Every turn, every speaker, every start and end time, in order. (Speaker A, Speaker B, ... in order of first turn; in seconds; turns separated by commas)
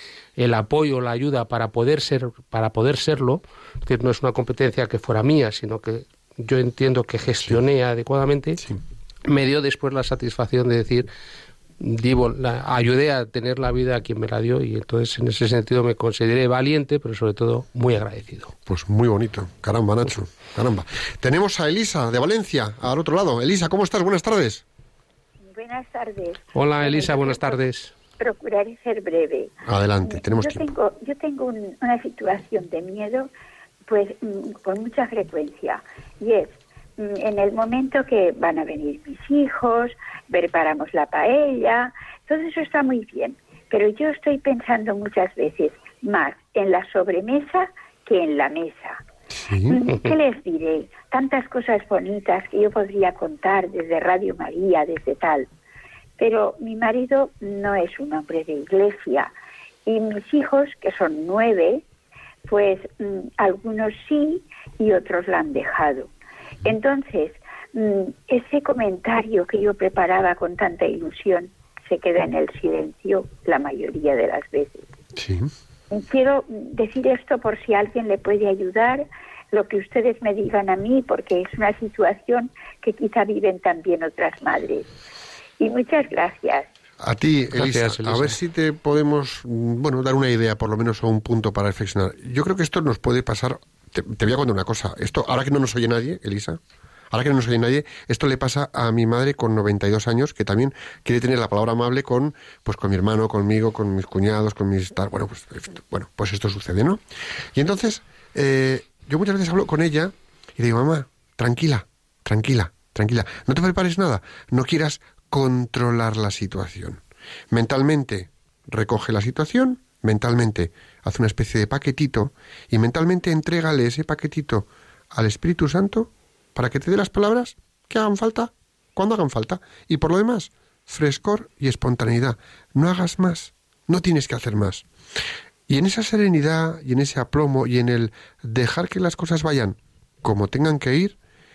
Speaker A: 0.4-8.6, Speaker A: 9.3-11.1, Speaker A: 11.8-18.5, Speaker B: 18.7-24.6, Speaker C: 25.4-27.6, Speaker A: 26.5-27.9, Speaker C: 28.2-33.3, Speaker B: 29.7-30.7, Speaker C: 33.9-49.0, Speaker B: 49.4-49.8, Speaker C: 49.6-55.5, Speaker C: 56.2-59.3, Speaker C: 59.9-61.8, Speaker C: 62.5-66.1, Speaker C: 66.6-74.9, Speaker B: 75.2-75.5, Speaker C: 75.9-84.9, Speaker C: 85.6-86.7, Speaker B: 87.0-96.6, Speaker A: 87.6-88.4, Speaker B: 97.1-107.0, Speaker B: 107.5-134.9, Speaker B: 135.7-141.2